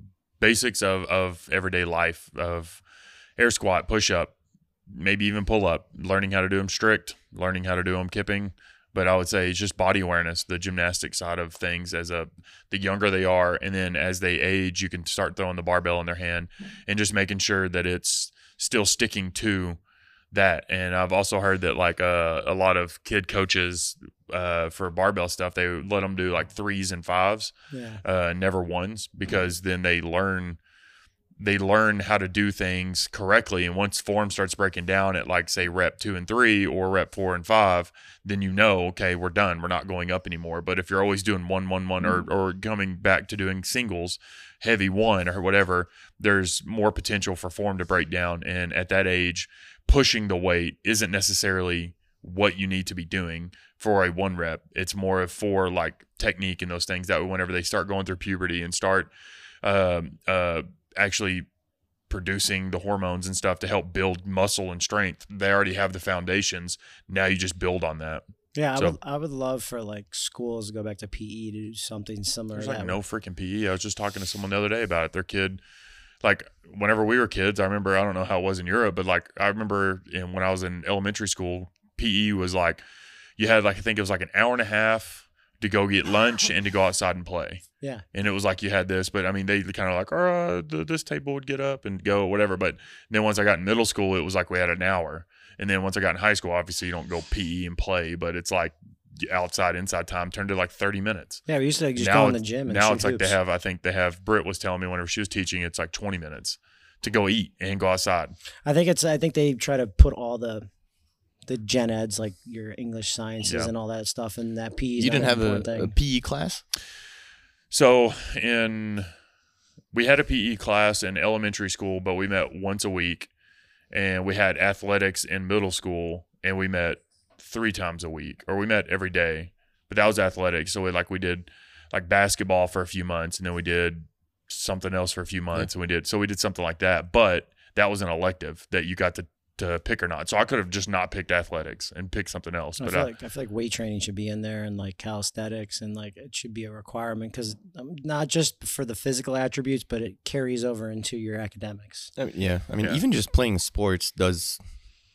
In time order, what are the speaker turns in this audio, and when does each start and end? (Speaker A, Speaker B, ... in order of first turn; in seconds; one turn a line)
Speaker A: 0.4-2.8
Speaker A: 3.4-4.3
Speaker A: 4.9-19.8
Speaker A: 20.3-30.6
Speaker B: 27.7-28.0
Speaker A: 31.4-59.1
Speaker A: 59.6-61.5
Speaker A: 62.1-68.2
Speaker B: 68.5-73.0
Speaker A: 72.5-75.6
Speaker A: 76.2-82.8
Speaker A: 83.4-101.4
Speaker B: 101.5-103.3
Speaker A: 102.0-108.3
Speaker B: 108.6-110.7
Speaker B: 111.5-115.9
Speaker A: 113.4-113.7
Speaker C: 115.0-116.6
Speaker A: 117.7-119.1
Speaker A: 119.9-123.3
Speaker A: 123.9-143.1
Speaker B: 142.8-152.1
Speaker C: 152.1-154.7